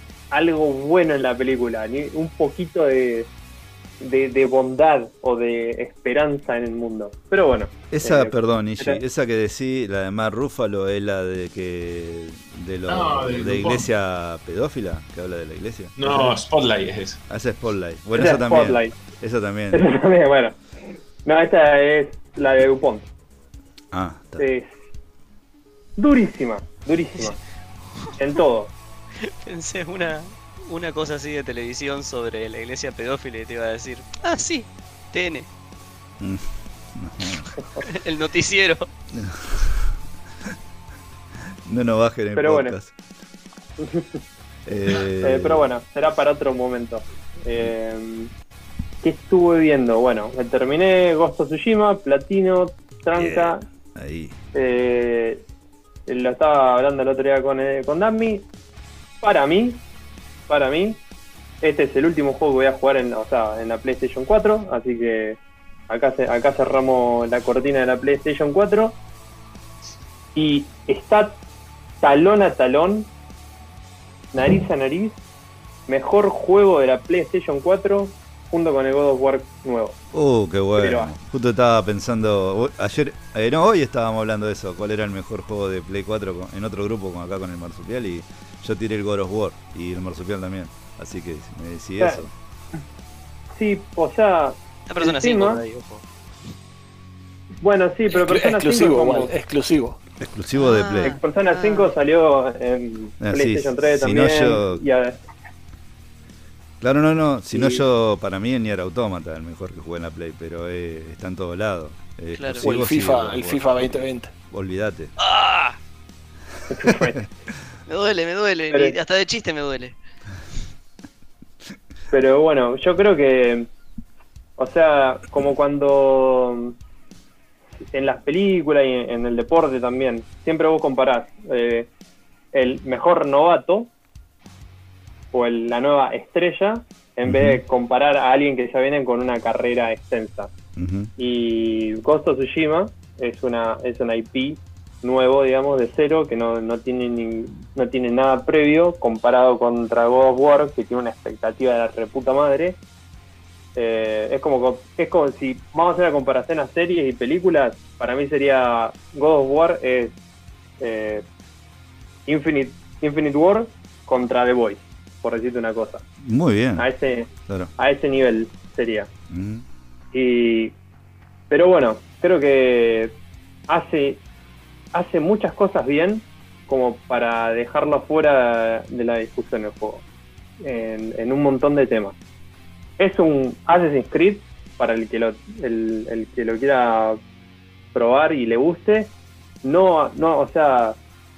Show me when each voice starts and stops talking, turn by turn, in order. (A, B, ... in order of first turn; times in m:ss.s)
0:00.3-0:03.3 A
0:04.0-0:09.0 A
0:07.9-0:16.3 B
0:12.9-0:13.8 C
0:16.0-0:17.2 C
0:17.3-0:19.8 B
0:18.2-0:18.9 A
0:19.7-0:20.6 A
0:21.2-0:23.1 A
0:23.9-0:24.5 B
0:24.4-0:24.7 A
0:26.0-0:27.4 A
0:28.2-0:28.7 A
0:29.2-0:35.5 D
0:36.2-0:37.5 B
0:37.8-0:38.9 D
0:39.1-0:39.9 B
0:41.6-0:42.9 B
0:42.4-0:42.8 A
0:43.8-0:44.2 A
0:44.6-0:45.7 B
0:45.2-0:48.3 A
0:49.0-0:53.6 A
0:53.1-0:54.4 B
0:54.5-0:55.4 A
0:56.1-0:58.4 A
0:59.2-0:59.8 A
1:00.5-1:01.0 A
1:01.6-1:09.0 A
1:10.3-1:11.4 A
1:12.0-1:13.1 A
1:14.3-1:15.2 A
1:15.9-1:20.0 A
1:20.1-1:32.3 B
1:20.8-1:21.1 A
1:32.0-1:32.2 A
1:33.5-1:35.6 A
1:34.9-1:36.0 D
1:37.6-1:39.3 A
1:38.1-1:40.0 E
1:40.2-1:41.2 B
1:40.5-1:41.9 D
1:41.0-1:45.2 A
1:43.2-1:44.8 B
1:46.8-1:55.1 B
1:52.3-1:52.8 D
1:52.6-1:54.3 E
1:55.2-1:55.8 D
1:56.7-1:57.2 A
1:57.9-1:59.9 D
1:58.7-1:59.0 A
2:02.1-2:03.7 A
2:04.6-2:06.7 A
2:07.9-2:11.9 A
2:12.5-2:13.9 A
2:15.3-2:20.5 A
2:17.2-2:17.6 B
2:20.8-2:21.1 B
2:21.2-2:32.8 A
2:33.7-2:40.1 A
2:40.8-2:41.2 A
2:42.3-2:46.0 A
2:46.2-2:46.9 B
2:46.8-2:49.1 A
2:49.3-2:49.6 B
2:50.1-2:50.7 A
2:51.5-2:53.1 A
2:53.7-2:54.2 A
2:54.9-3:00.0 A
3:00.6-3:02.1 A
3:03.0-3:07.2 A
3:07.9-3:09.1 A
3:09.6-3:11.0 A